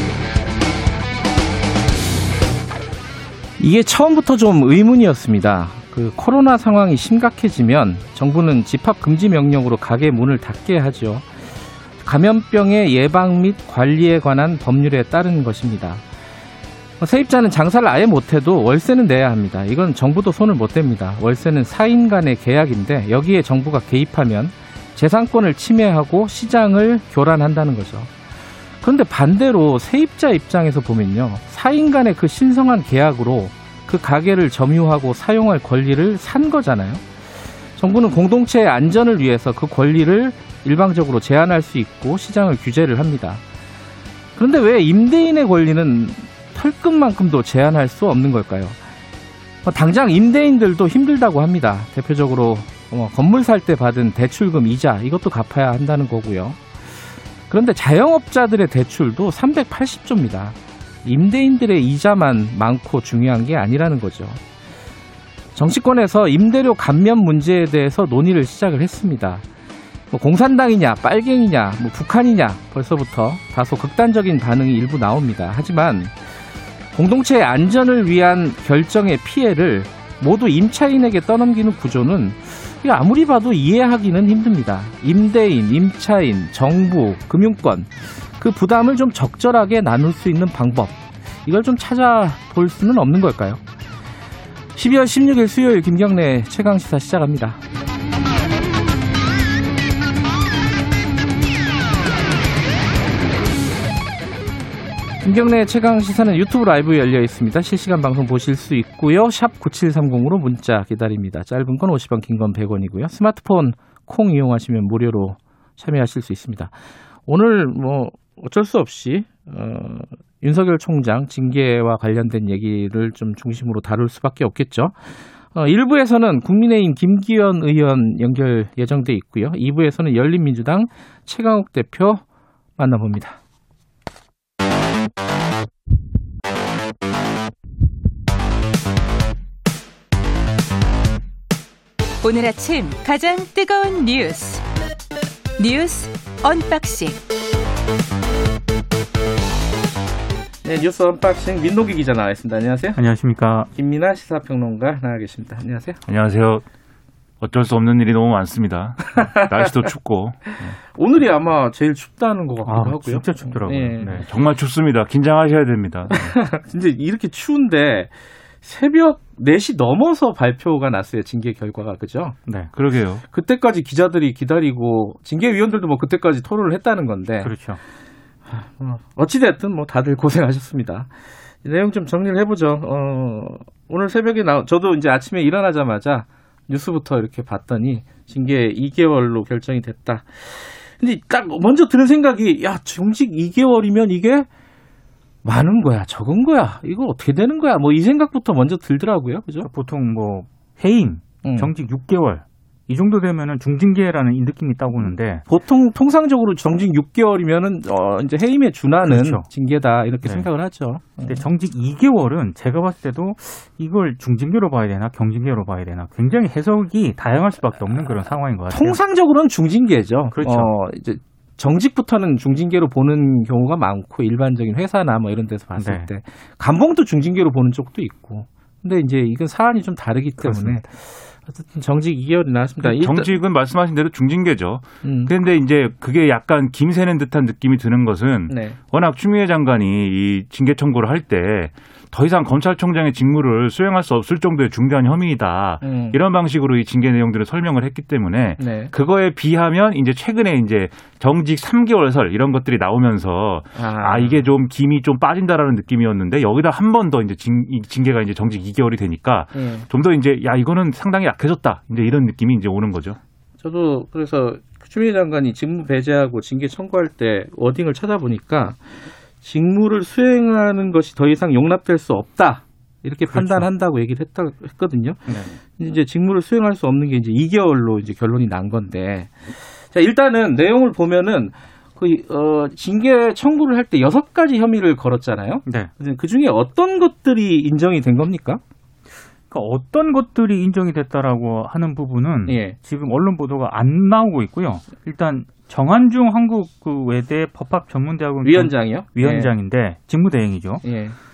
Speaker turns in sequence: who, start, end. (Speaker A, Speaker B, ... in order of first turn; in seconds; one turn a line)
Speaker A: 3.6-11.3
Speaker A: 12.0-16.0
Speaker A: 17.0-28.1
Speaker A: 28.8-37.0
Speaker A: 37.8-43.4
Speaker A: 44.4-48.8
Speaker A: 49.6-56.6
Speaker A: 57.5-64.4
Speaker A: 65.5-69.4
Speaker A: 70.1-76.1
Speaker A: 76.9-93.6
Speaker A: 94.8-97.6
Speaker A: 105.2-116.7
Speaker A: 117.3-132.2
Speaker A: 132.8-133.4
Speaker B: 142.2-144.6
Speaker B: 145.6-147.2
Speaker A: 150.6-153.0
Speaker C: 152.9-153.7
Speaker A: 153.7-156.0
Speaker D: 156.1-156.6
Speaker D: 157.4-160.8
Speaker A: 160.8-164.2
Speaker C: 162.6-164.2
Speaker D: 164.2-166.3
Speaker A: 166.1-172.4
Speaker D: 172.7-173.2
Speaker A: 173.3-177.5
Speaker C: 177.4-177.8
Speaker A: 178.5-181.1
Speaker A: 181.6-194.5
Speaker A: 195.4-199.7
Speaker C: 199.6-205.4
Speaker A: 201.4-201.7
Speaker A: 205.4-211.4
Speaker C: 209.1-209.4
Speaker C: 211.2-219.0
Speaker A: 218.7-233.3
Speaker C: 220.3-220.7
Speaker C: 225.8-226.1
Speaker C: 230.4-230.8
Speaker D: 232.8-263.2
Speaker A: 235.0-235.3
Speaker A: 238.5-238.8
Speaker A: 245.8-246.2
Speaker A: 248.6-248.9
Speaker A: 253.8-254.4
Speaker A: 259.5-259.9
Speaker A: 263.6-275.2
Speaker C: 273.3-273.7
Speaker C: 275.3-275.5
Speaker A: 275.8-288.6
Speaker C: 289.5-300.8
Speaker A: 292.5-292.8
Speaker A: 298.4-299.5
Speaker A: 300.8-301.2